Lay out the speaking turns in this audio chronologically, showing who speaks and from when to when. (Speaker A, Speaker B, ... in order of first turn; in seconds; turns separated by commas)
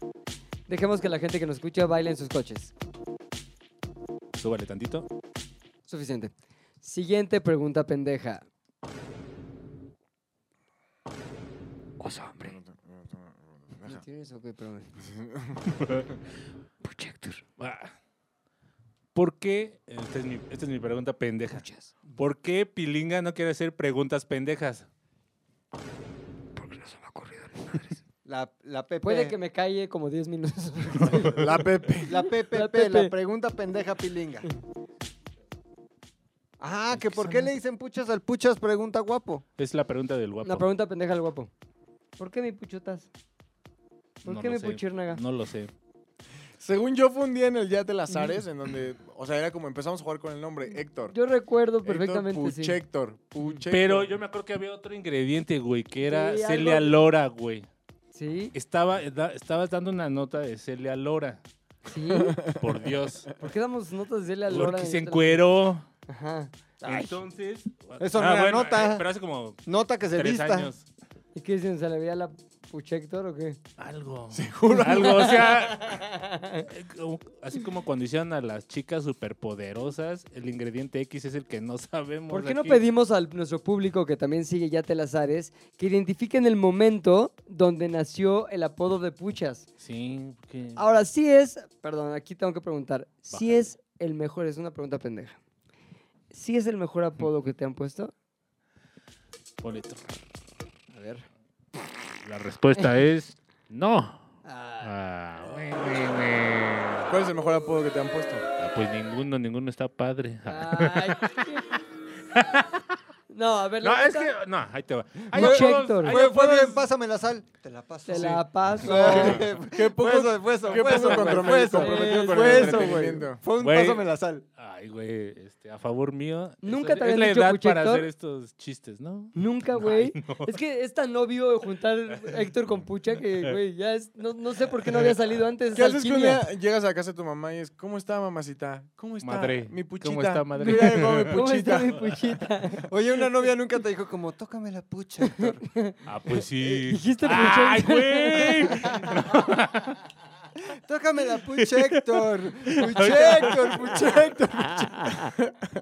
Speaker A: 0.7-2.7, Speaker B: 4.3-5.1, Speaker A: 5.9-8.4, Speaker A: 12.0-12.6, Speaker C: 12.4-14.0, Speaker A: 13.8-15.0, Speaker C: 15.0-16.0, Speaker A: 16.8-17.4, Speaker B: 17.6-17.9, Speaker B: 19.1-24.9, Speaker A: 21.5-21.9, Speaker A: 26.6-28.0, Speaker D: 28.2-29.4, Speaker A: 29.0-33.1, Speaker C: 31.1-32.2, Speaker D: 32.1-34.5, Speaker D: 36.6-39.4, Speaker B: 37.0-37.5, Speaker B: 39.6-40.7, Speaker A: 40.5-41.5, Speaker A: 42.2-43.1, Speaker A: 44.2-45.2, Speaker B: 44.2-45.7, Speaker C: 46.6-51.1, Speaker A: 51.1-52.8, Speaker C: 51.9-54.1, Speaker B: 53.5-57.7, Speaker A: 56.0-57.0, Speaker A: 58.1-58.5, Speaker B: 58.5-61.4, Speaker A: 61.9-62.4, Speaker C: 62.1-62.7, Speaker B: 62.5-63.3, Speaker A: 63.4-65.4, Speaker B: 64.5-65.8, Speaker A: 66.1-66.5, Speaker D: 66.8-67.2, Speaker B: 66.8-69.6, Speaker D: 68.0-69.1, Speaker D: 69.7-70.7, Speaker B: 70.1-70.8, Speaker A: 71.3-73.6, Speaker B: 73.8-76.0, Speaker C: 74.3-75.3, Speaker A: 74.7-76.7, Speaker B: 76.6-82.8, Speaker A: 82.3-89.7, Speaker B: 89.8-90.8, Speaker A: 90.8-95.4, Speaker B: 93.3-93.7, Speaker A: 96.3-98.1, Speaker B: 99.6-100.0, Speaker A: 100.9-101.3, Speaker B: 102.2-104.2, Speaker A: 104.5-104.9, Speaker B: 104.8-107.1, Speaker C: 107.1-108.5, Speaker B: 108.6-111.4, Speaker A: 110.5-111.8, Speaker B: 112.3-112.8, Speaker A: 113.3-114.3, Speaker B: 113.8-116.8, Speaker A: 115.3-116.2, Speaker D: 115.3-124.4, Speaker A: 118.1-119.4, Speaker B: 118.2-119.4, Speaker C: 119.0-123.4, Speaker A: 121.0-123.0, Speaker B: 123.6-124.0, Speaker B: 124.6-130.6, Speaker A: 126.6-128.1, Speaker A: 129.3-136.4, Speaker C: 135.7-142.1, Speaker B: 139.2-141.4, Speaker A: 140.7-142.9, Speaker D: 142.9-145.6, Speaker A: 145.2-146.0, Speaker B: 146.1-150.0, Speaker A: 146.6-149.1, Speaker D: 150.7-155.0, Speaker B: 151.6-154.0, Speaker A: 154.9-155.3